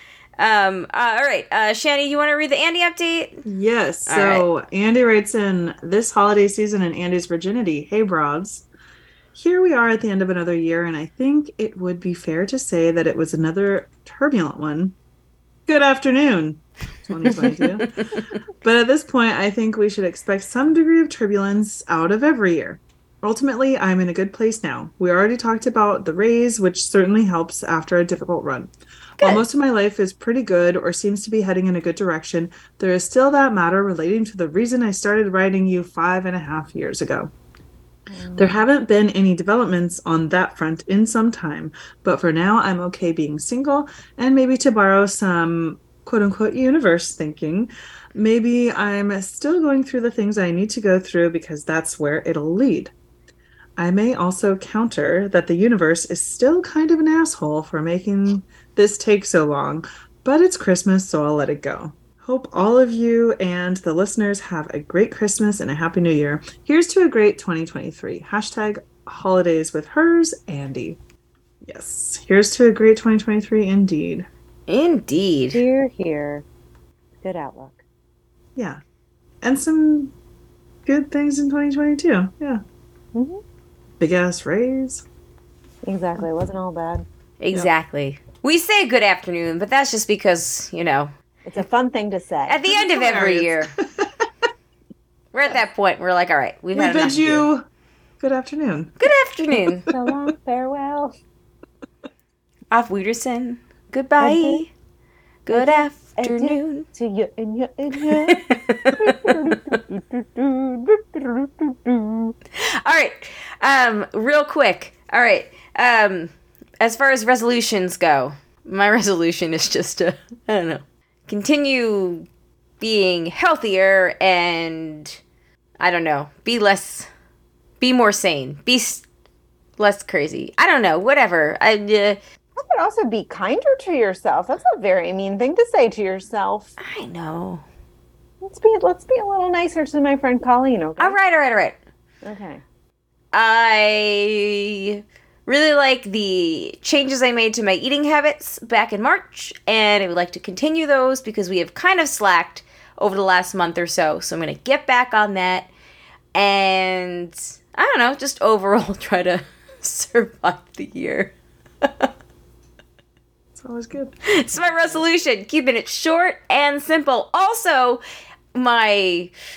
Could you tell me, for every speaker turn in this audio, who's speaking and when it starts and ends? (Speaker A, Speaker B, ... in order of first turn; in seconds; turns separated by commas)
Speaker A: 0.4-3.4, Speaker B: 3.5-8.7, Speaker A: 4.1-4.5, Speaker B: 9.3-14.9, Speaker B: 15.7-17.9, Speaker B: 18.6-37.3, Speaker C: 38.1-38.6, Speaker B: 38.4-52.9, Speaker B: 53.8-71.0, Speaker B: 71.7-74.3, Speaker A: 74.7-75.6, Speaker C: 75.5-76.5, Speaker C: 77.2-77.8, Speaker B: 79.4-80.1, Speaker B: 80.9-82.6, Speaker C: 83.1-83.4, Speaker B: 84.0-85.0, Speaker C: 85.8-87.1, Speaker A: 87.4-91.1, Speaker C: 91.5-92.7, Speaker A: 92.5-93.7, Speaker B: 92.7-94.1, Speaker A: 95.3-97.5, Speaker B: 96.7-97.6, Speaker B: 98.2-98.9, Speaker A: 99.0-99.9, Speaker C: 99.9-101.2, Speaker A: 102.7-104.7, Speaker C: 104.2-104.6, Speaker A: 105.5-106.9, Speaker C: 105.5-112.3, Speaker A: 108.3-109.8, Speaker A: 112.6-122.3, Speaker A: 122.8-125.2, Speaker A: 125.8-127.1, Speaker A: 127.8-129.0, Speaker A: 129.8-132.2, Speaker C: 132.6-136.7, Speaker A: 136.8-137.6, Speaker C: 138.4-141.2, Speaker A: 141.0-141.8, Speaker C: 142.2-142.6, Speaker A: 143.3-155.7, Speaker A: 156.3-162.1, Speaker B: 163.6-164.2, Speaker A: 164.3-168.0, Speaker A: 168.6-169.3